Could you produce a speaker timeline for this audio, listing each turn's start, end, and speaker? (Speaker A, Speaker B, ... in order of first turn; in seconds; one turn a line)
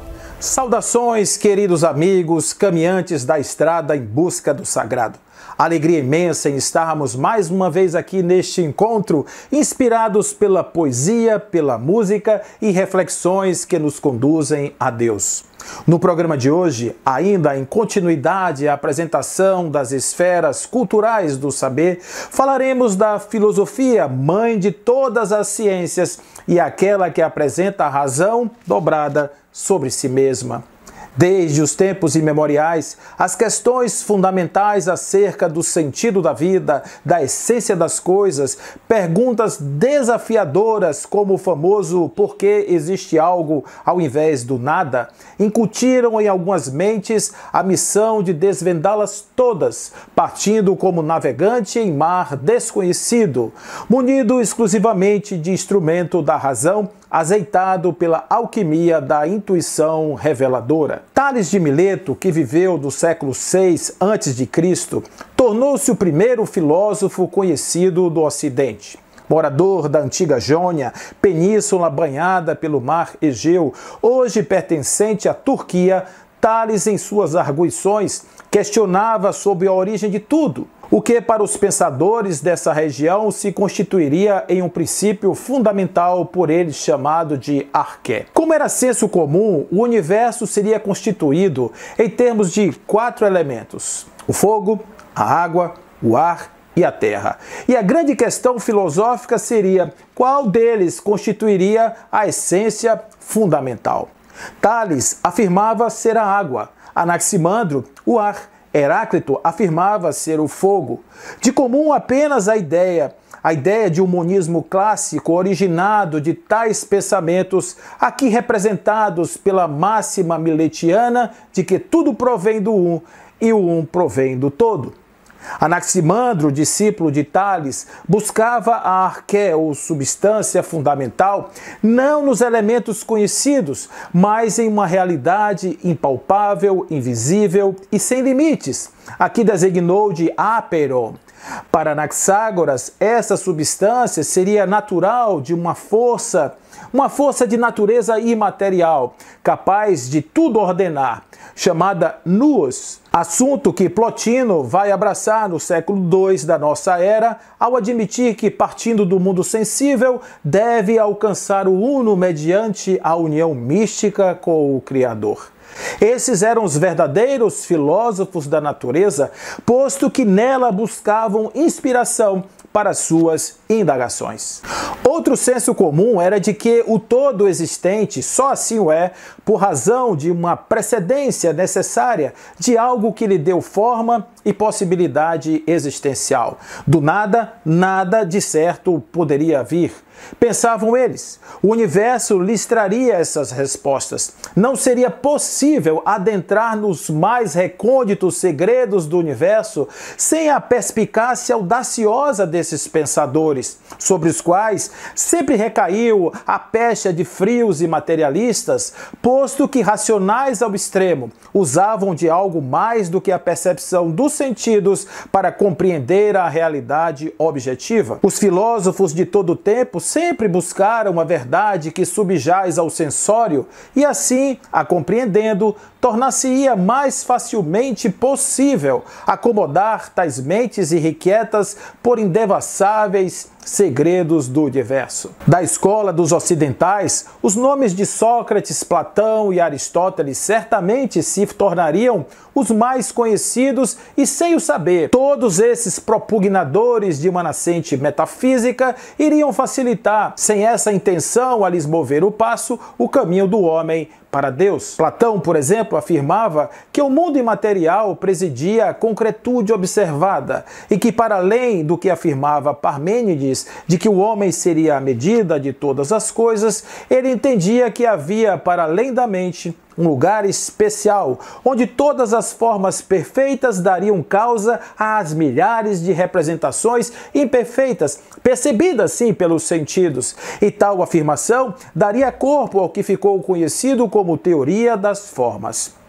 Speaker A: 0.4-30.6
Speaker A: 31.2-125.0
Speaker A: 125.6-141.2
Speaker A: 141.7-285.9